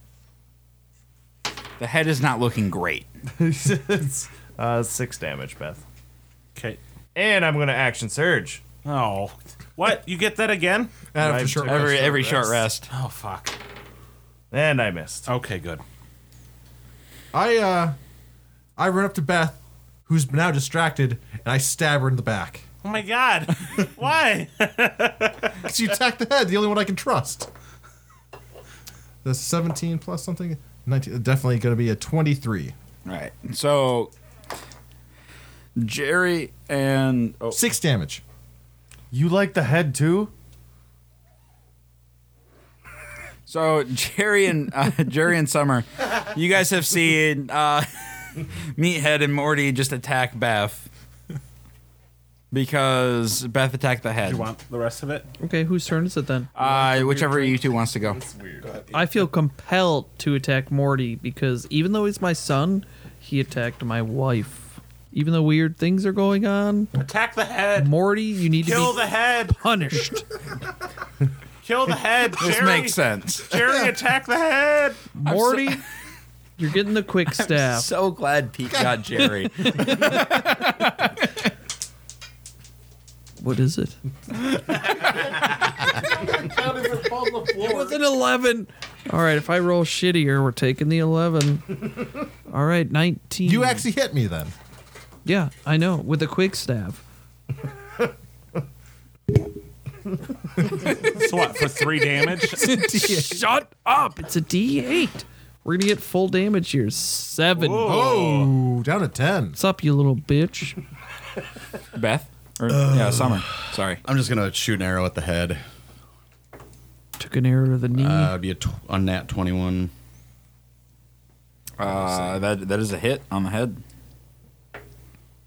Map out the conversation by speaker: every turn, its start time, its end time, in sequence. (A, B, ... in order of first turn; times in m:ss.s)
0:01.8-0:03.1 A
0:03.4-0:05.8 B
0:07.1-0:08.6 B
0:08.8-0:10.9 C
0:11.1-0:12.1 D
0:11.2-0:12.6 B
0:11.6-0:12.9 A
0:12.9-0:13.6 C
0:14.5-0:15.3 B
0:15.3-0:15.8 C
0:17.3-0:18.0 D
0:18.8-0:22.6 D
0:22.8-0:25.6 C
0:25.6-0:27.5 D
0:29.2-0:32.7 D
0:33.0-0:34.1 A
0:35.8-0:37.6 A
0:37.5-0:38.2 D
0:39.1-0:40.3 B
0:43.5-0:50.9 A
0:52.5-0:54.5 A
0:54.2-0:55.3 C
0:55.4-0:56.5 E
0:56.5-0:58.2 A
0:56.6-0:58.8 B
0:58.9-1:06.9 E
1:06.9-1:07.9 C
1:07.7-1:10.3 E
1:08.6-1:09.6 C
1:11.6-1:15.1 C
1:12.4-1:13.5 A
1:15.1-1:15.8 E
1:15.2-1:15.8 A
1:16.6-1:17.9 E
1:17.3-1:21.3 A
1:18.7-1:19.0 D
1:19.6-1:20.7 E
1:23.4-1:24.0 E
1:24.7-1:28.0 D
1:27.6-1:33.8 E
1:33.4-1:34.5 D
1:35.2-1:37.0 E
1:40.7-1:42.8 C
1:42.5-1:48.1 E
1:42.6-1:43.5 D
1:47.5-1:48.5 C
1:47.8-1:49.6 D
1:49.6-1:50.8 E
1:51.9-1:54.0 A
1:52.7-1:55.6 F
1:57.2-1:58.3 E
1:58.0-1:59.9 F
2:01.8-2:03.8 A
2:01.8-2:02.4 F